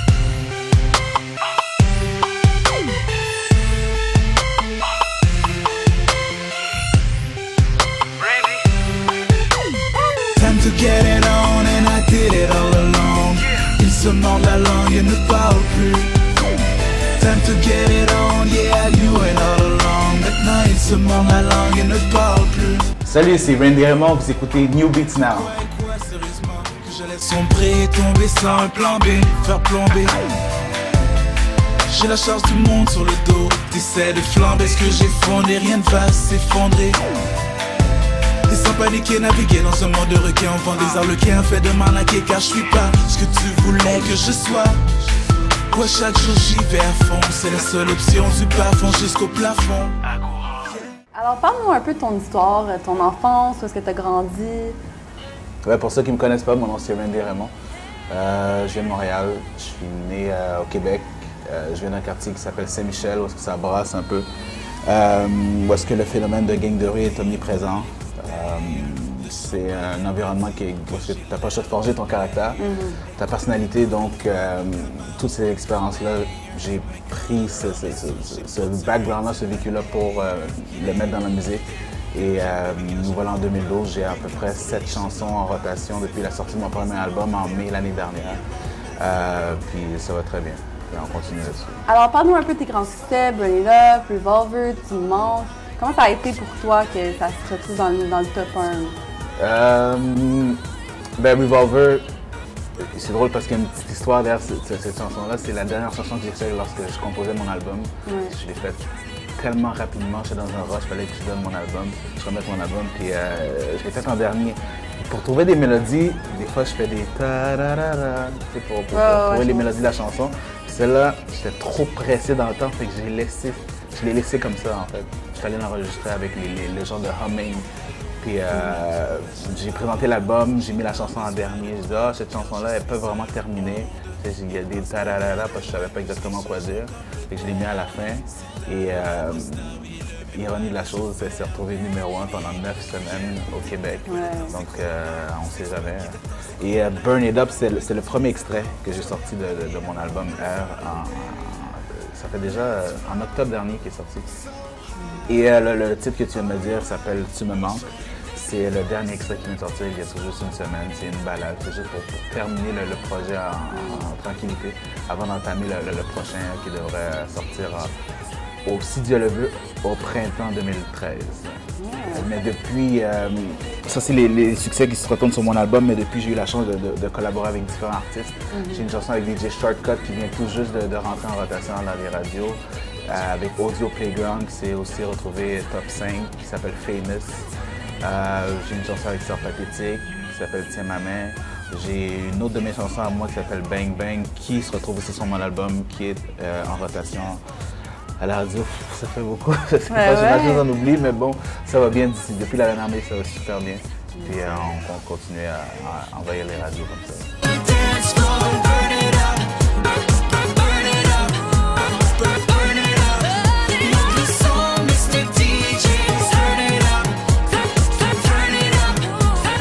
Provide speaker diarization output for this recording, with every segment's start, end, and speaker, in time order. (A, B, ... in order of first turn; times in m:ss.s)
0:08.3-0:08.6 A
0:10.3-0:16.2 A
0:17.2-0:22.9 A
0:23.0-0:25.5 B
0:25.4-0:30.2 A
0:31.9-0:37.0 A
0:38.4-0:45.0 A
0:45.7-0:50.7 A
0:51.1-0:54.8 C
0:55.6-0:57.5 B
0:58.1-1:04.2 B
1:04.8-1:28.4 B
1:12.6-1:13.0 C
1:29.0-1:31.8 B
1:31.9-1:39.0 C
1:39.4-1:40.6 B
1:41.2-1:42.0 B
1:42.9-1:48.8 B
1:48.0-1:48.3 C
1:49.4-2:07.7 B
1:58.9-1:59.7 C
2:08.2-2:34.3 B
2:24.1-2:24.5 C
2:35.3-2:47.9 B
2:43.7-2:44.1 C
2:48.6-2:51.6 B
2:51.8-2:52.3 C
2:52.1-3:07.5 B
2:58.5-2:58.8 C
3:08.0-3:17.4 B
3:18.2-3:27.3 B
3:19.9-3:20.6 C
3:27.4-3:29.6 A
3:30.3-3:37.2 A
3:38.0-3:39.2 A